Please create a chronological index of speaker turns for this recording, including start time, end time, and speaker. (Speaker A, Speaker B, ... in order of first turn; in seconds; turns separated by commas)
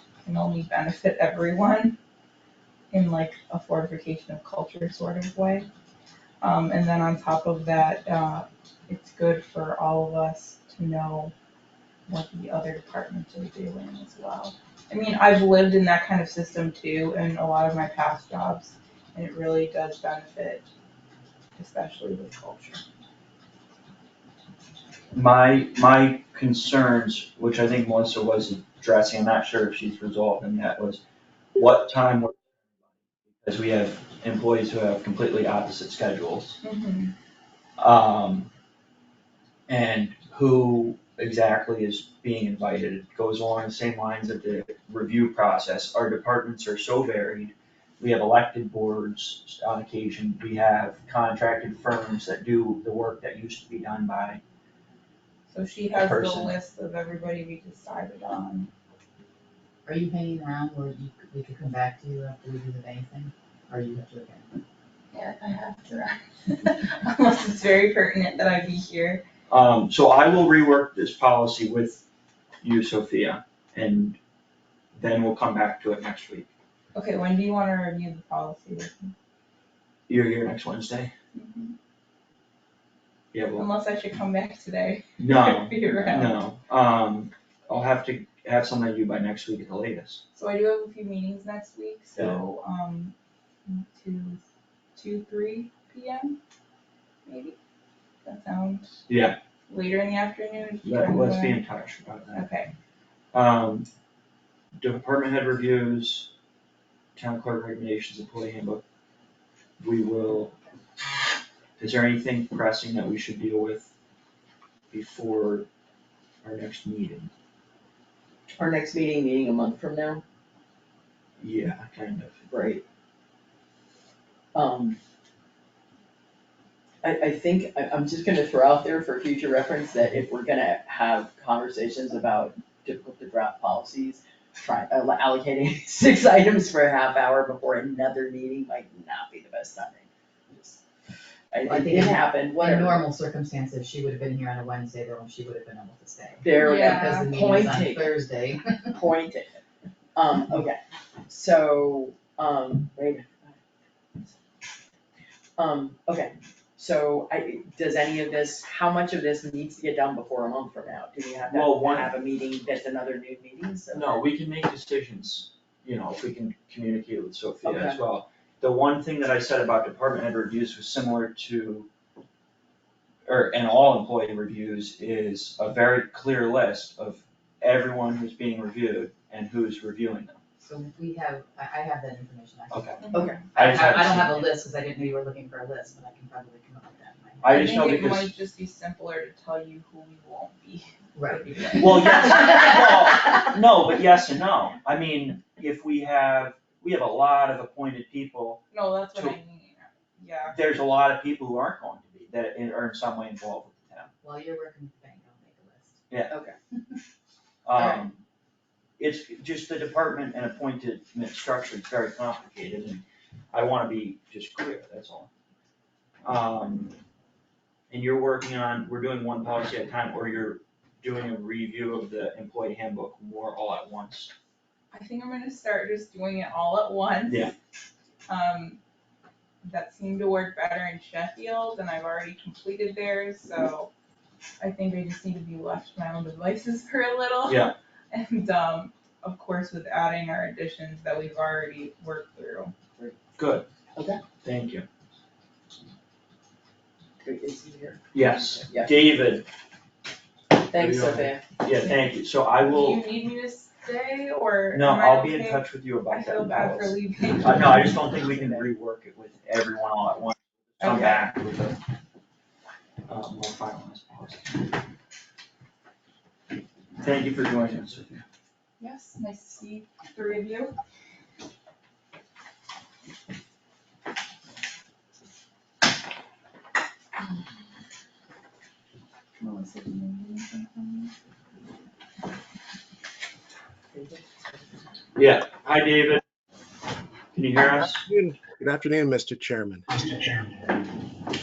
Speaker A: 0.2-2.0, Speaker A: 2.9-5.7, Speaker A: 6.4-11.3, Speaker A: 12.1-20.7, Speaker A: 21.6-22.8, Speaker B: 25.1-31.0, Speaker B: 31.6-32.4, Speaker B: 33.4-36.6, Speaker A: 36.6-37.1, Speaker B: 37.8-38.5, Speaker B: 39.7-54.4, Speaker A: 55.5-58.7, Speaker B: 55.9-56.6, Speaker C: 59.9-64.6, Speaker A: 65.1-69.2, Speaker B: 69.5-72.0, Speaker B: 72.6-74.2, Speaker B: 74.9-76.5, Speaker A: 77.0-79.1, Speaker B: 80.1-81.1, Speaker A: 81.3-81.8, Speaker B: 83.3-83.7, Speaker A: 83.6-86.3, Speaker B: 85.2-90.2, Speaker A: 90.3-93.1, Speaker B: 92.2-92.4, Speaker A: 93.7-94.4, Speaker A: 95.0-96.4, Speaker A: 97.3-97.6, Speaker A: 98.2-99.0, Speaker B: 99.1-99.4, Speaker A: 99.7-101.6, Speaker B: 100.8-102.5, Speaker A: 102.3-102.7, Speaker B: 103.3-103.9, Speaker B: 104.8-106.3, Speaker B: 107.2-108.8, Speaker B: 109.8-110.5, Speaker B: 111.8-113.9, Speaker B: 114.9-115.7, Speaker B: 116.4-117.3, Speaker D: 118.5-120.2, Speaker B: 121.4-122.5, Speaker D: 122.5-122.8, Speaker D: 124.5-125.0, Speaker D: 127.0-140.8, Speaker D: 141.5-143.1, Speaker C: 141.7-149.0, Speaker D: 146.4-148.2, Speaker A: 146.5-147.3, Speaker D: 148.9-149.6, Speaker D: 150.2-153.6, Speaker D: 155.6-164.2, Speaker B: 161.5-162.1, Speaker B: 163.9-171.9, Speaker D: 167.6-168.0, Speaker B: 173.3-180.4, Speaker C: 180.6-187.6, Speaker B: 182.7-184.5, Speaker A: 183.0-183.4, Speaker D: 183.1-183.4, Speaker B: 187.4-188.3, Speaker A: 187.4-192.2, Speaker C: 191.2-192.2, Speaker B: 191.7-199.4, Speaker A: 198.7-200.6, Speaker B: 200.5-204.1, Speaker C: 204.2-206.0, Speaker B: 206.1-206.3, Speaker D: 206.3-206.6, Speaker B: 207.7-208.2, Speaker D: 207.8-208.1, Speaker B: 209.0-215.3, Speaker B: 216.2-217.0, Speaker B: 217.9-224.3, Speaker A: 224.9-227.5, Speaker B: 227.3-227.5, Speaker A: 228.3-228.8, Speaker A: 229.6-233.9, Speaker A: 234.6-242.7, Speaker B: 237.5-237.8, Speaker B: 243.4-243.7, Speaker D: 244.0-244.3, Speaker B: 244.4-244.9, Speaker D: 247.2-248.1, Speaker B: 248.1-249.5, Speaker D: 248.7-248.9, Speaker D: 250.7-251.5, Speaker B: 250.7-253.1, Speaker A: 252.7-258.0, Speaker B: 254.7-261.8, Speaker D: 258.3-258.6, Speaker A: 260.8-261.3, Speaker B: 263.1-264.7, Speaker B: 267.0-268.2, Speaker A: 268.8-270.7, Speaker A: 279.4-281.1, Speaker D: 283.9-284.4, Speaker B: 285.2-286.2, Speaker B: 287.3-288.1, Speaker E: 287.8-290.5